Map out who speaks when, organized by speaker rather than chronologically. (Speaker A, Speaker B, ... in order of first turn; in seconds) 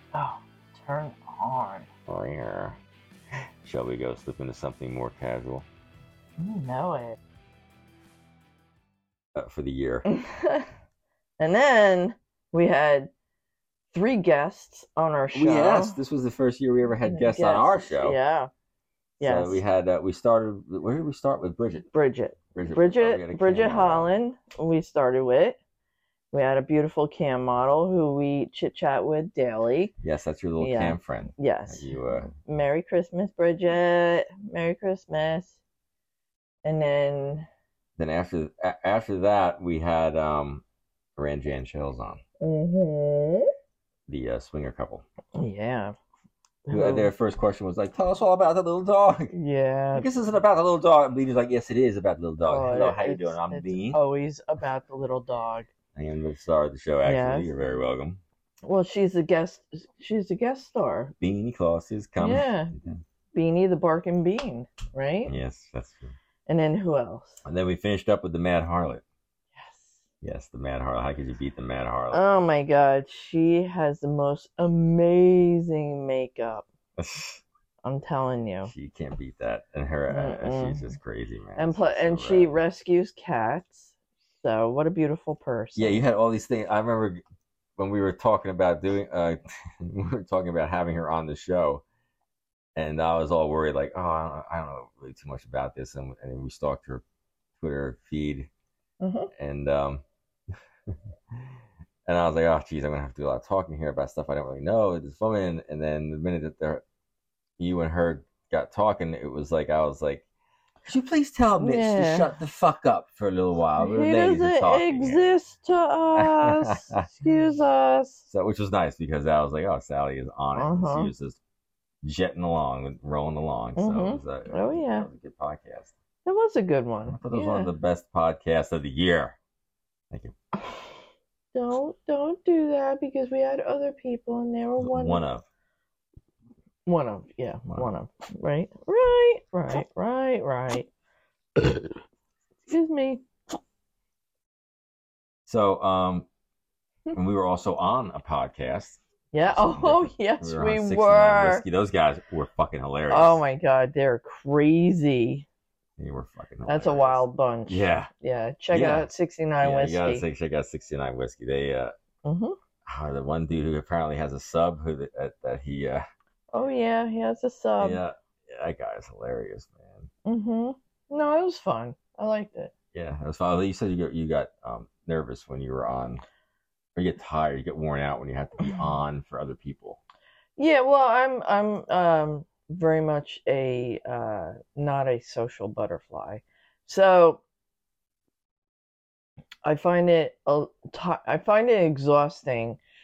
Speaker A: 0.1-1.9, 6.4-7.2, 10.1-10.7, 11.4-13.1, 13.9-16.0, 17.0-18.5, 19.2-19.6, 21.9-25.6, 26.3-29.9, 30.6-35.6, 36.6-37.5, 42.4-43.5, 45.3-45.9, 46.6-47.1, 49.3-50.1, 52.4-55.7, 57.0-57.5, 58.6-61.1, 62.2-62.7, 63.3-65.3, 66.5-67.4, 69.5-70.0, 72.1-76.7, 77.8-78.7, 80.1-81.0, 81.5-86.0, 99.0-99.3, 111.6-112.3, 113.8-118.2, 120.5-121.1, 123.8-125.1, 126.2-127.7, 130.6-131.0, 131.5-135.2, 136.8-140.9, 142.7-143.2, 149.3-151.6, 153.1-155.4, 156.7-160.2, 162.2-162.6, 166.5-168.0, 170.2-172.7, 178.6-178.9, 180.6-187.4, 189.6-192.8
Speaker B: 2.1-2.8, 3.6-5.7, 9.3-10.0, 15.3-18.2, 19.2-21.9, 22.5-24.1, 30.0-32.3, 38.0-40.6, 41.2-42.2, 44.1-45.0, 46.7-49.3, 49.9-54.0, 55.9-58.2, 61.2-63.0, 65.2-66.2, 67.4-69.0, 70.2-72.2, 77.0-77.4, 78.6-82.6, 85.8-87.2, 87.8-91.8, 92.8-97.0, 97.6-98.5, 99.4-100.0, 102.0-106.8, 107.6-110.2, 110.8-115.2, 116.1-117.1, 118.3-121.4, 122.0-125.9, 127.1-129.4, 134.8-135.4, 137.7-137.9, 145.4-146.3, 147.1-153.4, 156.0-158.1, 158.7-159.1, 159.6-161.9, 162.8-166.1, 167.8-170.1, 172.9-176.2, 176.9-180.0